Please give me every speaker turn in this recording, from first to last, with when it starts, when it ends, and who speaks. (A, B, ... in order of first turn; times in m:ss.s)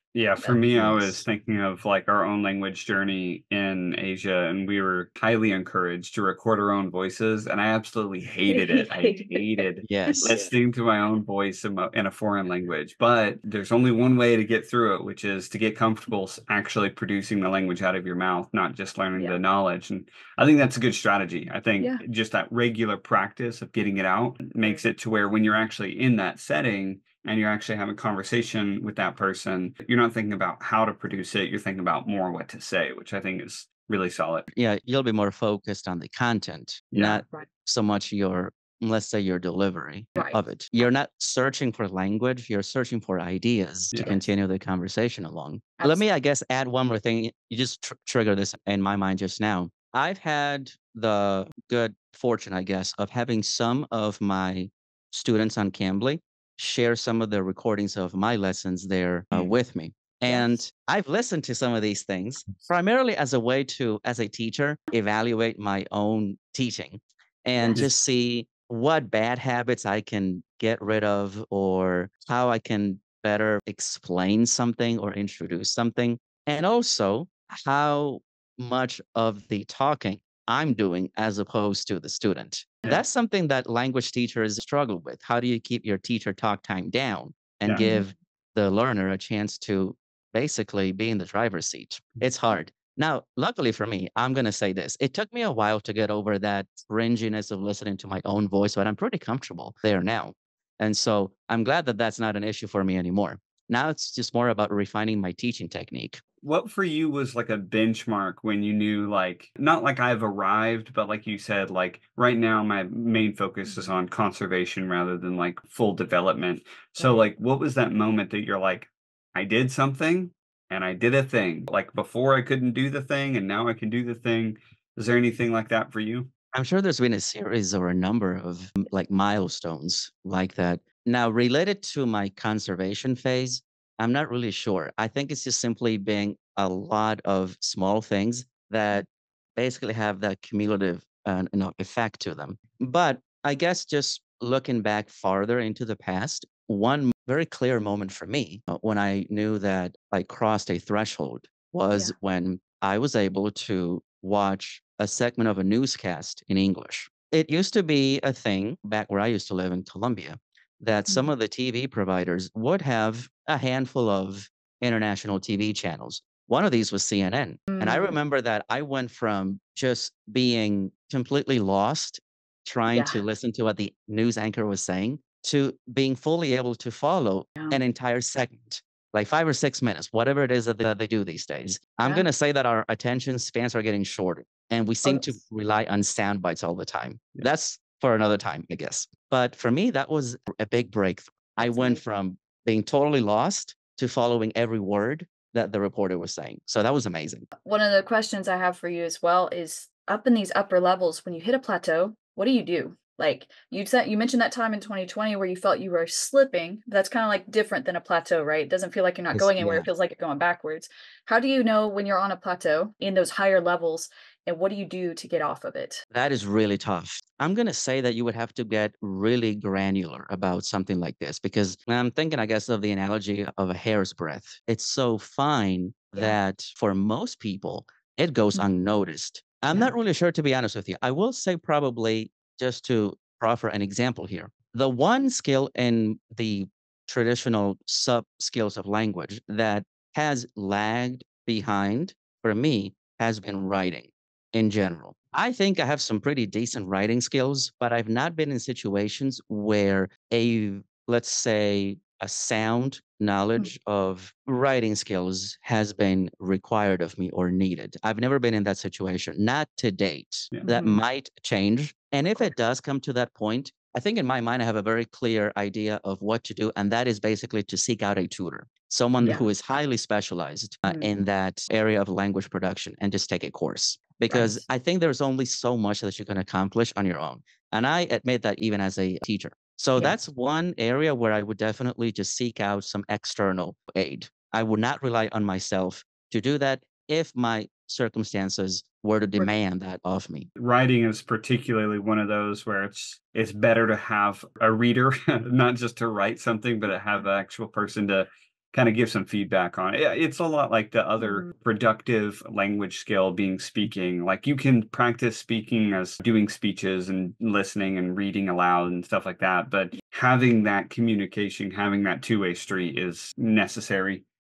0:00.1-0:34.5 A
0:00.5-0:01.2 B
0:08.5-0:10.3 C
0:09.8-0:10.4 B
0:34.5-1:46.2 B
0:36.9-0:37.2 A
1:00.3-1:00.5 C
1:27.8-1:28.1 C
1:46.4-2:06.3 A
2:06.5-3:17.5 B
2:47.7-2:48.1 C
2:52.9-2:53.2 C
3:05.0-3:05.4 C
3:11.6-3:12.0 C
3:17.6-3:36.0 C
3:29.3-3:29.9 B
3:36.1-4:50.5 B
4:20.6-4:21.0 C
4:34.3-4:34.6 C
4:50.6-5:14.2 A
5:01.2-5:01.5 C